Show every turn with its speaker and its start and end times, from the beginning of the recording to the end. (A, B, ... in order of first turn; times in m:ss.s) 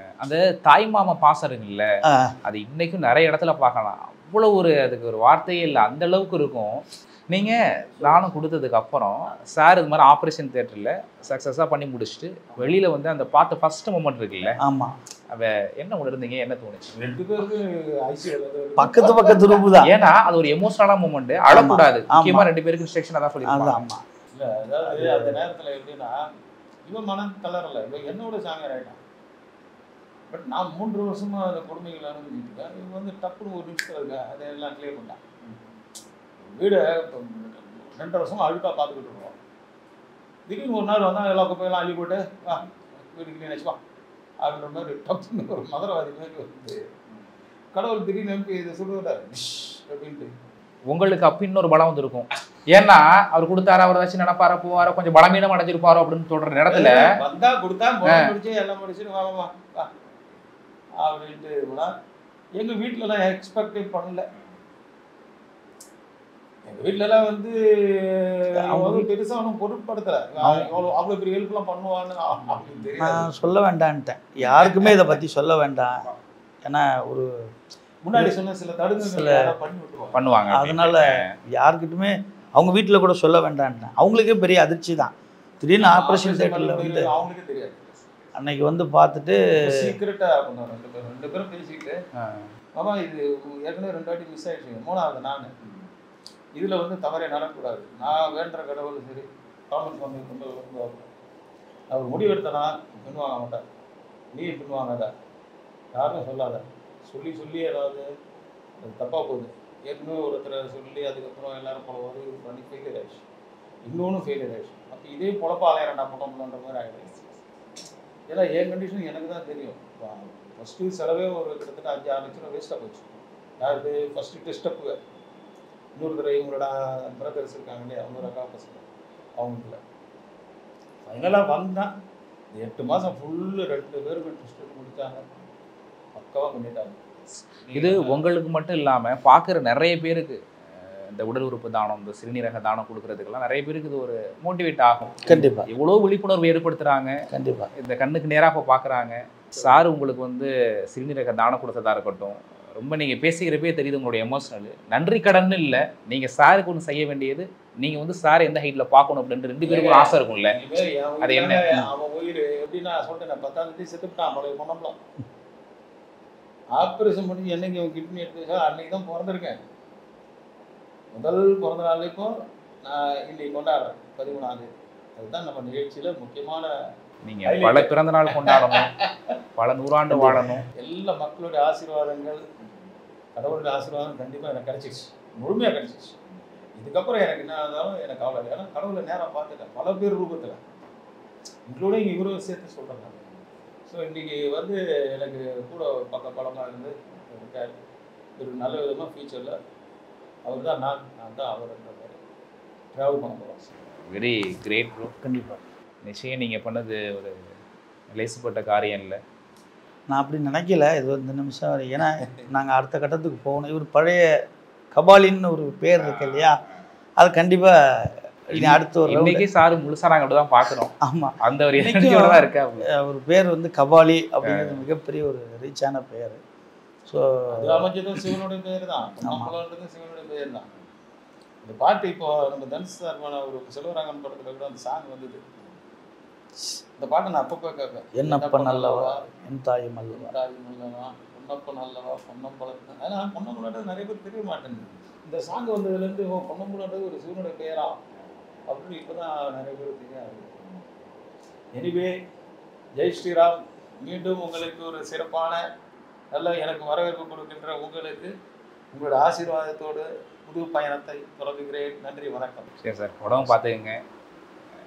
0:00.2-0:01.9 A
0:02.1-0:02.3 B
0:02.4-0:14.6 A
0:14.6-0:14.9 B
0:15.3-0:16.9 A
0:17.0-0:19.7 C
0:18.8-0:19.9 B
0:19.8-0:23.8 A
0:21.5-0:22.5 B
0:23.4-0:24.0 B
0:24.3-0:26.2 C
0:24.9-0:25.4 B
0:26.9-0:29.0 C
0:30.3-0:35.2 C
0:36.5-0:39.4 C
0:40.5-0:43.8 C
0:44.4-0:46.9 C
0:47.7-0:50.3 C
0:50.9-0:57.0 A
0:56.7-0:59.9 C
0:58.0-0:58.3 A
1:01.0-1:01.9 C
1:02.6-1:04.3 C
1:06.7-1:13.3 C
1:08.6-1:09.1 B
1:10.4-1:10.7 B
1:13.0-1:16.1 B
1:14.6-1:15.2 C
1:16.6-1:17.3 B
1:18.1-1:20.2 C
1:19.0-1:19.6 B
1:20.1-1:21.3 A
1:20.5-1:27.1 B
1:25.8-1:27.8 C
1:28.4-1:30.0 B
1:29.6-1:32.0 C
1:32.2-1:32.5 A
1:32.8-1:35.5 C
1:36.6-1:41.1 C
1:41.9-1:43.6 C
1:44.3-1:45.1 C
1:45.9-1:48.1 C
1:48.8-1:53.2 C
1:53.9-1:57.2 C
1:58.3-2:03.1 C
2:03.6-2:05.0 C
2:06.0-2:08.9 C
2:09.4-2:09.8 C
2:11.0-2:11.9 C
2:12.5-2:15.2 C
2:16.2-2:17.0 C
2:17.6-2:18.2 C
2:17.7-2:27.2 A
2:25.3-2:25.7 B
2:27.3-2:27.7 B
2:27.8-2:40.6 A
2:39.6-2:45.0 C
2:41.2-2:41.6 A
2:46.8-2:49.6 C
2:51.1-2:52.3 C
2:52.8-2:56.7 C
2:57.2-2:58.9 A
2:57.4-2:59.1 C
2:59.6-3:00.6 A
3:00.1-3:00.6 B
3:00.8-3:02.4 C
3:03.4-3:06.2 C
3:06.8-3:10.6 C
3:11.7-3:13.2 C
3:13.9-3:17.8 C
3:18.4-3:19.6 C
3:20.5-3:22.2 C
3:22.9-3:23.7 C
3:24.1-3:25.2 A
3:25.2-3:25.6 B
3:26.0-3:27.4 A
3:28.1-3:29.2 A
3:30.1-3:34.2 B
3:34.9-3:36.6 B
3:37.2-3:39.5 B
3:38.5-3:42.9 A
3:41.0-3:46.4 B
3:44.4-3:44.8 A
3:47.1-3:47.9 B
3:47.5-3:50.7 C
3:49.2-3:49.5 B
3:51.6-3:55.4 C
3:57.0-3:59.3 C
3:58.2-4:00.4 B
4:00.1-4:08.0 C
4:08.7-4:10.6 C
4:11.8-4:12.2 C
4:13.0-4:15.6 C
4:16.3-4:18.3 C
4:18.9-4:22.7 C
4:22.8-4:24.0 A